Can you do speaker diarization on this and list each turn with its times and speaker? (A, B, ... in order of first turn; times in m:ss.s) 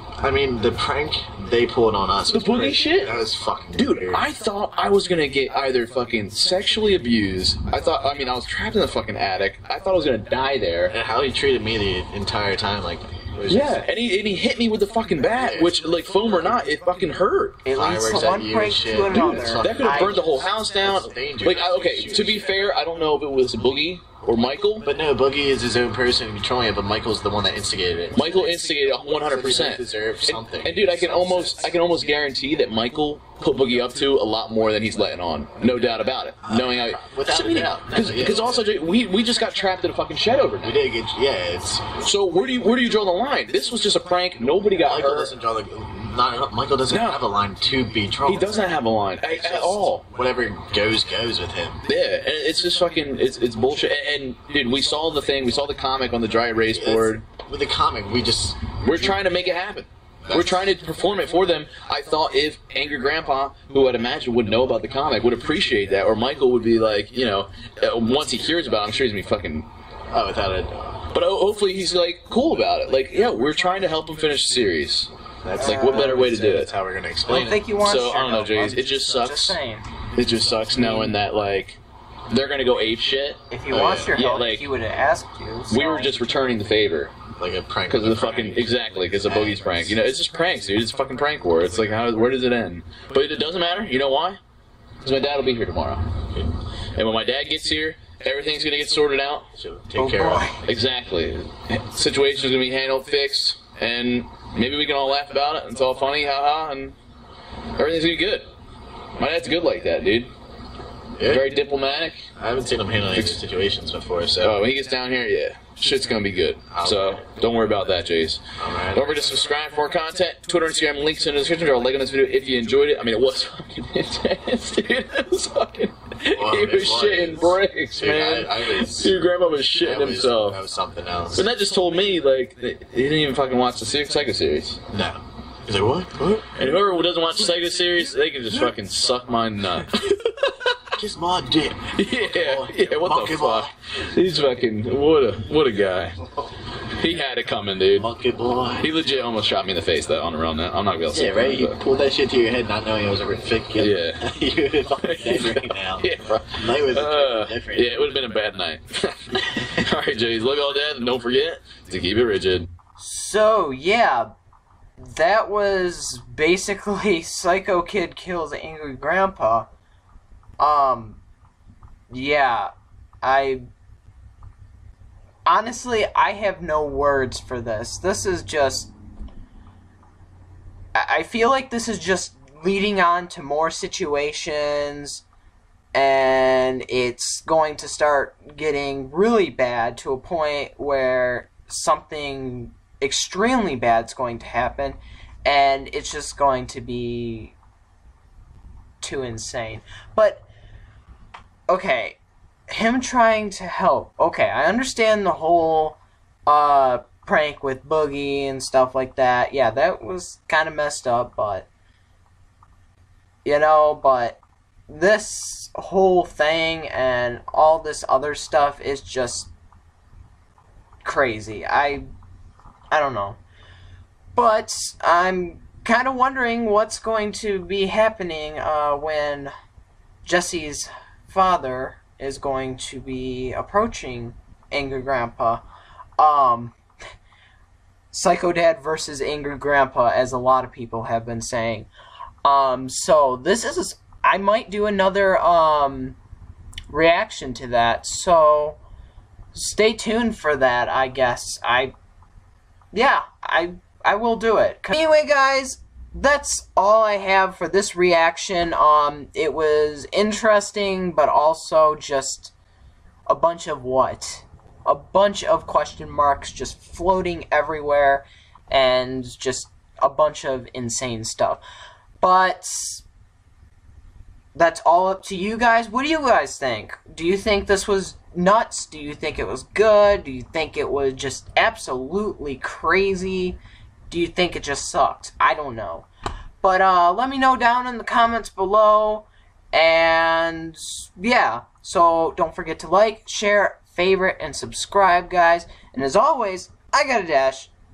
0:00.2-0:04.3 A
0:02.3-0:03.2 B
0:03.8-0:11.0 B
0:10.9-0:13.8 A
0:13.5-0:17.6 B
0:15.4-0:15.8 A
0:17.6-0:20.2 C
0:17.8-0:22.7 A
0:19.6-0:24.9 B
0:24.8-0:28.5 A
0:28.2-0:40.8 B
0:29.2-0:31.7 A
0:36.4-0:38.7 A
0:40.6-0:41.9 A
0:42.0-0:45.3 B
0:44.8-0:48.7 A
0:46.9-0:47.2 B
0:48.3-0:50.0 B
0:49.2-0:51.8 A
0:51.9-0:57.2 B
0:56.7-0:59.1 A
0:58.8-1:09.7 B
1:10.1-1:11.1 A
1:11.1-1:16.7 B
1:15.4-1:17.6 A
1:15.6-1:16.3 C
1:17.3-1:19.8 C
1:17.7-1:19.6 B
1:20.2-1:21.8 B
1:20.2-1:20.9 A
1:22.3-1:23.4 B
1:23.5-1:26.1 C
1:23.7-1:24.1 A
1:24.1-1:24.7 B
1:25.7-1:27.1 B
1:27.4-1:30.1 A
1:27.9-1:34.4 B
1:35.0-1:36.1 B
1:37.0-1:39.5 B
1:39.5-1:40.6 A
1:40.0-1:40.6 C
1:40.7-1:47.0 B
1:47.8-1:48.5 B
1:49.2-1:50.3 B
1:51.2-1:51.4 A
1:51.2-1:52.2 B
1:52.4-1:54.6 A
1:54.4-1:58.4 B
1:56.7-1:57.2 A
1:58.6-1:59.4 A
1:58.9-2:10.6 B
2:06.3-2:09.1 A
2:09.8-2:11.5 A
2:11.4-2:14.8 B
2:14.9-2:16.6 A
2:16.6-2:20.4 B
2:20.9-2:23.7 A
2:21.9-2:26.2 B
2:27.0-2:28.1 B
2:28.0-2:28.9 A
2:28.8-2:31.8 B
2:31.1-2:38.1 A
2:33.8-2:34.2 B
2:35.0-2:42.7 B
2:43.0-2:44.3 C
2:45.0-2:49.7 C
2:50.6-2:51.2 C
2:52.1-2:52.7 C
2:53.2-2:53.7 C
2:55.5-2:58.9 C
3:01.0-3:05.2 C
3:05.9-3:17.6 C
3:19.0-3:20.5 C
3:21.7-3:22.2 C
3:22.7-3:31.7 C
3:33.4-3:39.5 C
3:41.0-3:42.1 C
3:42.9-3:43.4 C
3:44.4-3:49.5 C
3:50.2-3:55.6 C
3:56.2-3:56.8 C
3:58.1-4:01.9 C
4:02.4-4:06.2 C
4:06.9-4:08.8 C
4:09.5-4:11.9 C
4:12.9-4:22.5 C
4:23.3-4:31.6 C
4:32.2-4:33.0 C
4:34.6-4:43.6 C
4:44.1-4:46.1 C
4:46.6-4:57.7 C